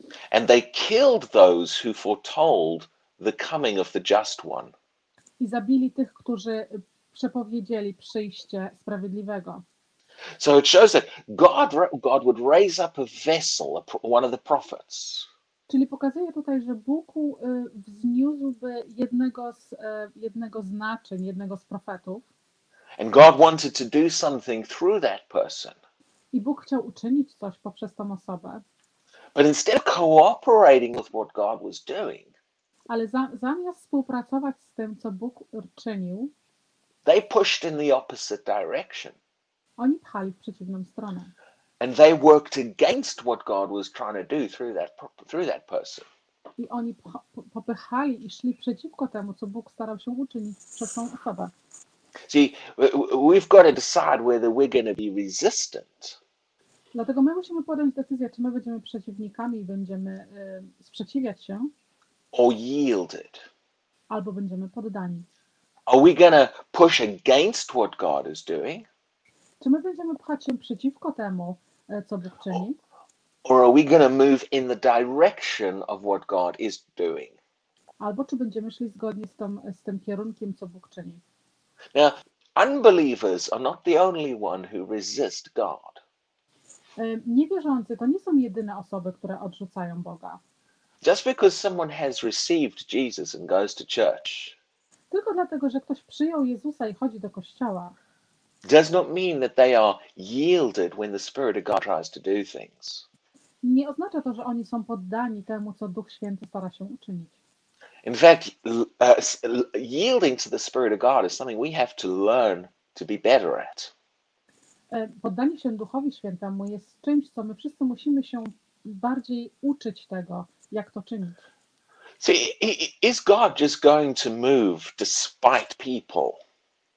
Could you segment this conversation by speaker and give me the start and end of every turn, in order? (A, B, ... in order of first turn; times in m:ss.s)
0:00.3-0:04.7 A
0:05.4-0:09.6 B
0:10.4-0:15.3 A
0:15.7-0:22.2 B
0:23.0-0:25.8 A
0:26.3-0:28.6 B
0:29.3-0:32.3 A
0:32.9-0:36.3 B
0:37.0-0:39.2 A
0:39.8-0:41.3 B
0:41.8-0:46.1 A
0:46.6-0:51.5 B
0:52.3-0:56.2 A
0:56.9-1:01.7 B
1:02.3-1:03.4 A
1:04.1-1:05.2 B
1:05.9-1:08.9 A
1:09.6-1:12.8 B
1:13.4-1:17.4 A
1:18.0-1:21.2 B
1:21.9-1:26.0 A
1:27.0-1:30.4 B
1:31.0-1:34.6 A
1:35.1-1:37.9 B
1:38.6-1:43.0 A
1:43.6-1:47.3 B
1:48.0-1:53.9 A
1:54.9-2:01.4 B
2:02.2-2:06.4 A